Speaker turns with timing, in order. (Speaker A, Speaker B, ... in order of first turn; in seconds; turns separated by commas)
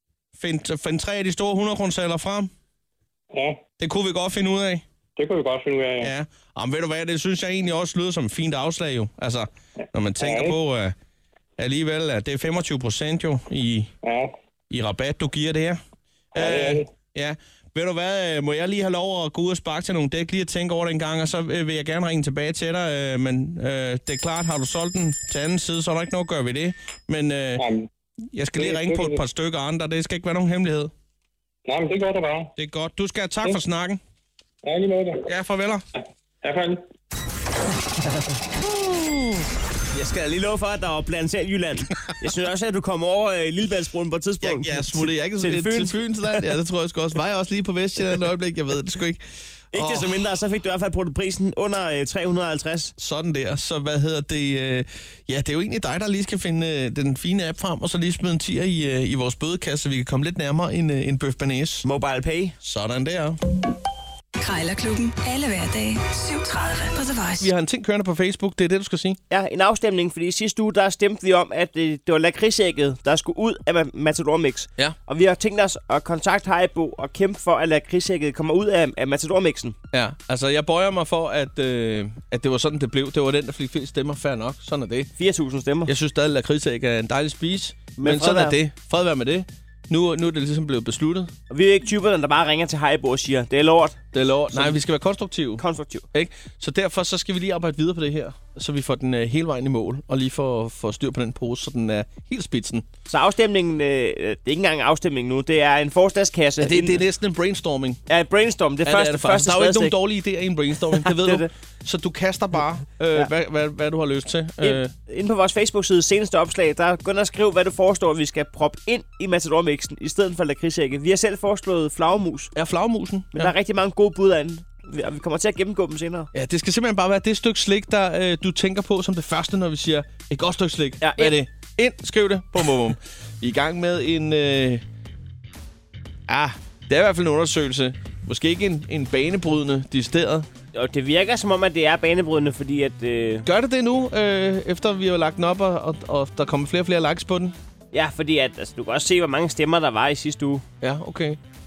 Speaker A: 0.4-2.5, Speaker B: 3.3-3.6, Speaker A: 3.8-4.8, Speaker B: 5.2-6.1, Speaker A: 6.0-10.9, Speaker B: 10.2-10.6, Speaker A: 11.6-13.9, Speaker B: 14.0-14.3, Speaker A: 14.7-15.8, Speaker B: 16.4-16.9, Speaker A: 16.4-27.7, Speaker B: 27.6-27.9, Speaker A: 28.3-30.9, Speaker B: 28.6-29.2, Speaker B: 31.7-32.5, Speaker A: 32.6-34.0, Speaker B: 34.6-35.2, Speaker A: 35.3-35.9, Speaker B: 36.4-36.8, Speaker A: 38.6-39.5, Speaker C: 39.9-46.0, Speaker A: 44.4-50.2, Speaker C: 49.7-53.0, Speaker A: 53.0-61.8, Speaker C: 61.8-62.6, Speaker A: 62.6-63.4, Speaker D: 64.4-67.5, Speaker A: 67.4-69.2, Speaker C: 69.3-79.8, Speaker A: 79.9-85.1, Speaker C: 85.2-85.9, Speaker A: 85.9-91.3, Speaker C: 88.0-88.6, Speaker C: 91.5-94.0, Speaker A: 94.1-102.9, Speaker C: 94.5-94.8, Speaker C: 95.6-96.1, Speaker C: 103.1-107.0, Speaker A: 106.6-108.0, Speaker C: 108.1-110.0, Speaker A: 108.8-114.9, Speaker C: 111.0-111.5, Speaker C: 114.6-122.5, Speaker A: 122.5-123.5, Speaker C: 123.3-126.3, Speaker A: 126.3-134.8, Speaker C: 131.0-131.4, Speaker A: 136.3-140.5, Speaker C: 140.7-143.5, Speaker A: 143.4-147.6, Speaker C: 147.9-150.6, Speaker A: 150.8-151.4